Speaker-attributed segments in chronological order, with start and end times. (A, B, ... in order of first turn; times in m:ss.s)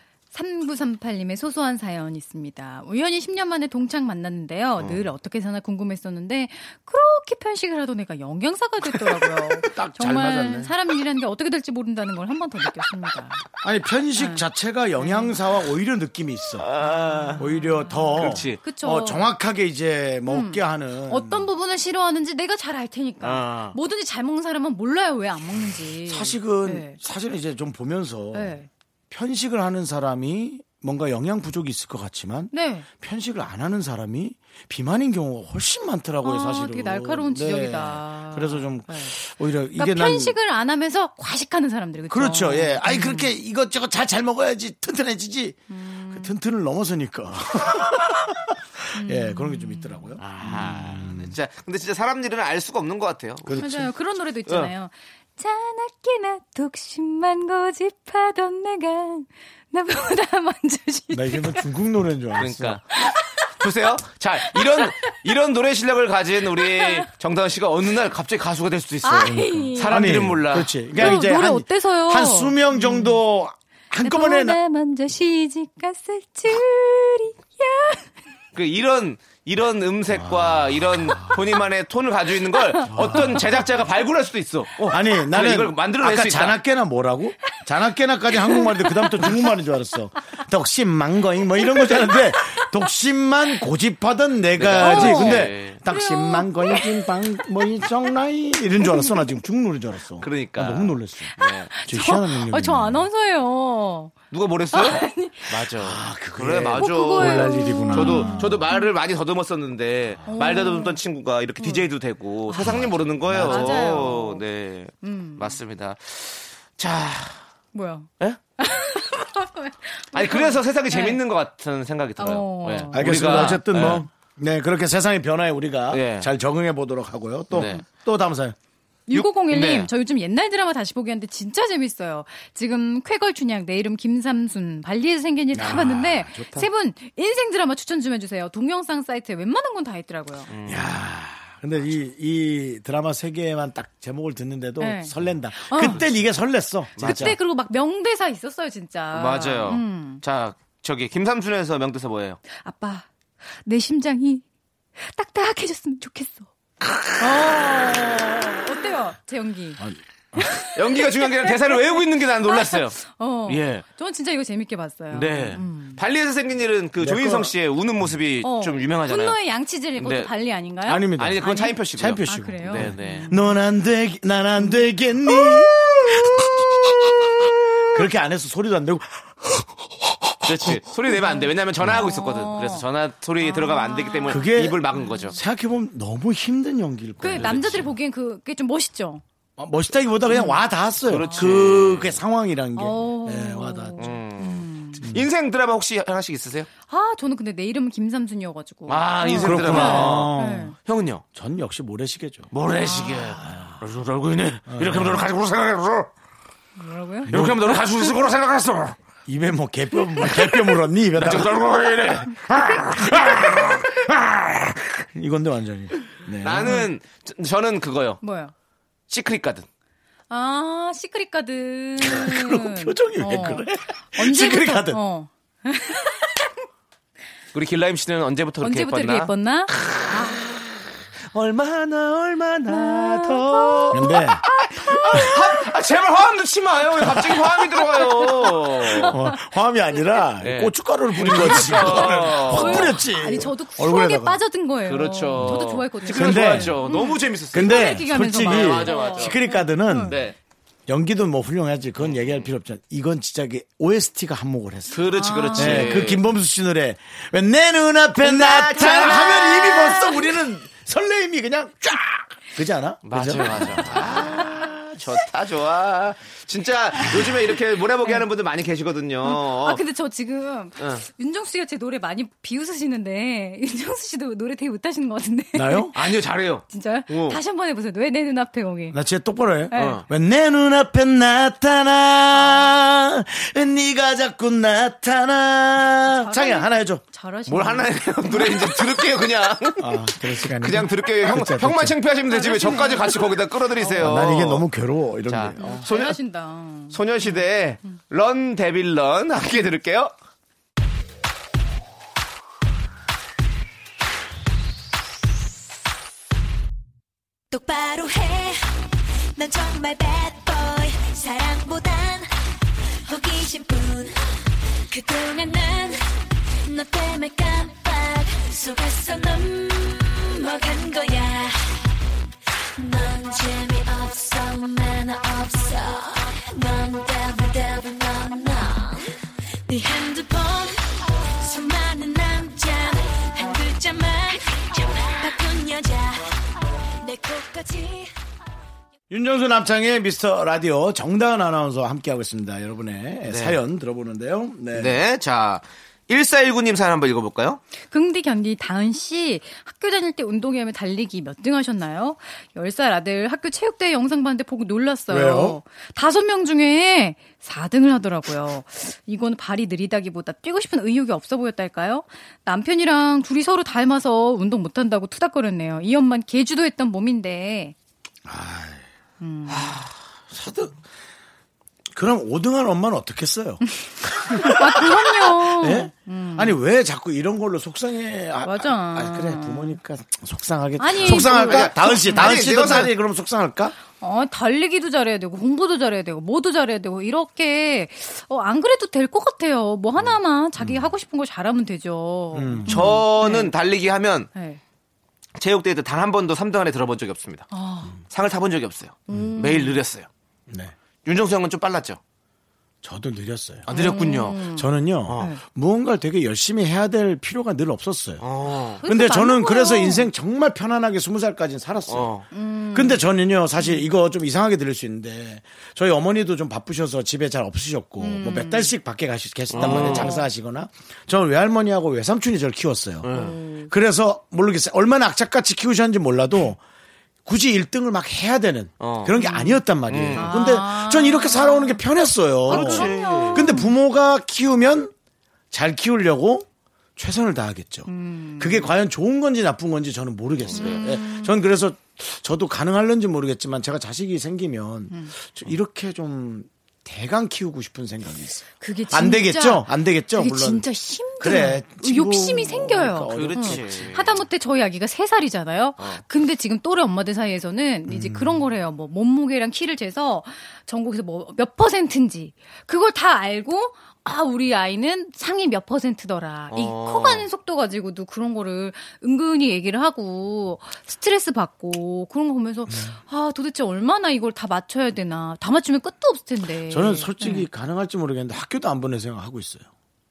0:00.3-0:13.4 A
0:09.6-0:10.7 B
0:13.6-0:16.8 B
0:14.2-0:14.4 A
0:15.0-0:15.4 A
0:16.6-0:17.5 C
0:16.8-0:19.3 A
0:17.4-0:21.5 B
0:18.2-0:18.6 C
0:20.3-0:27.0 A
0:23.2-0:23.8 C
0:26.0-0:40.4 B
0:28.3-0:28.7 A
0:32.5-0:32.9 A
0:36.2-0:39.2 A
0:39.8-0:43.3 A
0:42.1-0:51.3 B
0:45.7-0:46.4 A
0:48.9-0:50.2 A
0:50.2-0:53.8 C
0:53.5-0:53.9 B
0:53.5-1:01.7 A
0:54.5-0:54.7 C
1:01.1-1:02.8 B
1:02.4-1:02.8 C
1:03.2-1:03.4 A
1:03.6-1:11.2 C
1:06.6-1:07.1 A
1:09.0-1:10.2 A
1:09.2-1:14.6 B
1:10.9-1:13.2 A
1:14.0-1:18.1 A
1:18.6-1:26.6 C
1:20.2-1:20.9 B
1:22.9-1:23.4 B
1:24.9-1:41.3 B
1:28.4-1:29.2 A
1:31.8-1:32.1 A
1:34.6-1:35.8 C
1:34.8-1:37.6 A
1:38.8-1:39.3 A
1:40.2-1:41.7 C
1:41.4-1:44.2 A
1:41.8-1:43.1 B
1:44.3-1:57.4 C
1:44.7-1:45.7 A
1:45.8-1:48.6 B
1:46.7-1:48.9 A
1:50.3-1:51.0 A
1:51.6-1:51.9 A
1:52.5-1:54.4 A
1:52.6-1:54.1 B
1:55.0-1:55.6 A
1:57.7-2:01.2 A
2:00.1-2:04.0 C
2:02.2-2:03.6 A
2:02.9-2:08.6 B
2:05.9-2:06.3 C
2:07.5-2:07.8 C
2:07.6-2:07.8 A
2:09.1-2:20.5 A
2:09.1-2:09.9 C
2:15.5-2:16.7 B
2:20.5-2:20.9 C
2:20.7-2:27.4 B
2:24.8-2:26.0 A
2:27.0-2:27.4 C
2:27.0-2:30.2 A
2:29.1-2:32.4 C
2:32.5-2:33.1 A
2:33.6-2:34.4 A
2:35.0-2:36.5 A
2:36.9-2:37.2 C
2:37.2-2:39.8 A
2:39.8-2:40.4 B
2:40.4-2:46.0 A
2:40.7-2:43.8 C
2:45.1-2:49.4 C
2:47.0-2:47.5 B
2:48.4-2:53.6 A
2:50.0-2:50.3 C
2:50.9-2:57.2 B
2:51.2-2:53.3 C
2:57.9-3:00.8 B
3:00.4-3:05.4 C
3:01.1-3:02.9 A
3:03.4-3:05.4 A
3:04.3-3:07.9 B
3:07.2-3:09.2 A
3:07.3-3:07.9 C
3:09.6-3:14.0 B
3:10.3-3:10.6 A
3:11.1-3:12.2 C
3:11.2-3:11.7 A
3:12.8-3:15.0 A
3:14.0-3:16.7 C
3:16.9-3:20.8 A
3:18.9-3:21.2 C
3:19.3-3:20.7 B
3:21.3-3:22.5 B
3:22.5-3:26.1 C
3:22.8-3:23.4 A
3:23.5-3:23.7 B
3:24.7-3:25.3 B
3:26.8-3:27.3 A
3:27.3-3:27.8 B
3:27.3-3:29.0 C
3:29.3-3:31.6 B
3:31.2-3:33.7 C
3:32.7-3:36.8 B
3:36.4-3:38.2 C
3:36.6-3:36.9 A
3:38.2-3:38.5 A
3:39.1-3:39.7 C
3:40.3-3:46.4 A
3:42.0-3:45.0 B
3:47.5-3:59.1 C
3:48.6-3:50.4 A
3:52.7-3:55.7 A
3:53.9-3:54.4 B
3:58.0-3:59.4 A
3:59.0-4:04.4 B
4:00.4-4:03.0 C
4:01.3-4:10.2 A
4:04.9-4:09.4 C
4:06.1-4:06.8 B
4:07.5-4:10.2 B
4:10.1-4:10.4 C
4:10.9-4:24.4 B
4:12.0-4:12.5 C
4:14.9-4:16.2 C
4:15.1-4:16.0 A
4:18.2-4:20.1 C
4:18.8-4:20.3 A
4:23.1-4:29.8 C
4:24.0-4:24.6 A
4:29.2-4:36.0 A
4:30.8-4:31.0 C
4:35.5-4:35.9 B
4:35.9-4:37.4 C
4:36.7-4:39.0 A
4:38.9-4:47.0 B
4:39.7-4:40.0 A
4:39.7-4:40.0 C
4:42.3-4:42.7 A
4:46.1-4:49.0 A
4:47.5-4:54.6 C
4:49.8-4:52.0 B
4:52.3-4:54.3 A
4:54.0-4:55.8 B
4:55.3-4:56.2 C
4:55.6-4:57.4 A
4:56.9-5:00.1 C
5:07.5-5:08.8 D
5:09.4-5:12.3 D
5:13.0-5:14.2 D
5:14.9-5:16.0 D
5:16.6-5:21.9 D
5:22.8-5:29.1 D
5:29.7-5:38.1 D
5:39.1-5:45.0 B
5:43.3-5:43.6 C
5:44.7-5:47.6 C
5:47.9-6:07.8 A
5:55.1-5:55.6 B
6:08.3-6:08.9 B
6:09.2-6:09.8 A
6:09.5-6:10.7 C
6:11.9-6:13.6 B
6:14.2-6:23.8 B
6:14.2-6:16.6 A
6:18.4-6:19.8 A
6:20.8-6:22.6 A
6:21.0-6:22.9 C
6:23.9-6:33.5 A
6:30.6-6:30.9 B
6:32.3-6:33.0 B
6:32.7-6:34.3 C
6:34.3-6:34.6 A
6:35.4-6:37.5 C
6:37.5-6:38.0 A
6:38.0-6:40.1 C
6:39.1-6:39.8 A
6:40.5-6:40.7 B
6:41.0-6:42.0 C
6:42.8-6:48.2 B
6:43.7-6:44.4 C
6:43.7-6:45.4 A
6:45.1-6:45.3 C
6:48.2-6:48.8 C
6:48.8-6:50.1 A
6:48.8-7:06.6 B
6:51.9-6:52.3 C
6:52.3-6:53.0 A
6:53.6-6:53.9 A
6:58.0-6:58.8 A
6:59.5-7:00.2 C
6:59.6-7:00.3 A
7:03.0-7:03.4 C
7:03.1-7:03.7 A
7:07.2-7:14.9 B
7:08.8-7:09.2 C
7:09.1-7:09.6 A
7:09.9-7:10.4 C
7:10.2-7:11.8 A
7:12.5-7:13.8 A
7:12.5-7:13.5 C
7:15.5-7:30.7 B
7:17.9-7:18.7 A
7:20.4-7:20.8 C
7:20.5-7:21.4 A
7:28.6-7:57.5 A
7:31.2-7:33.9 B
7:33.1-7:34.2 C
7:35.8-7:36.0 C
7:37.9-7:38.4 B
7:46.5-7:47.3 C
7:52.7-7:53.0 B
7:56.7-7:59.7 B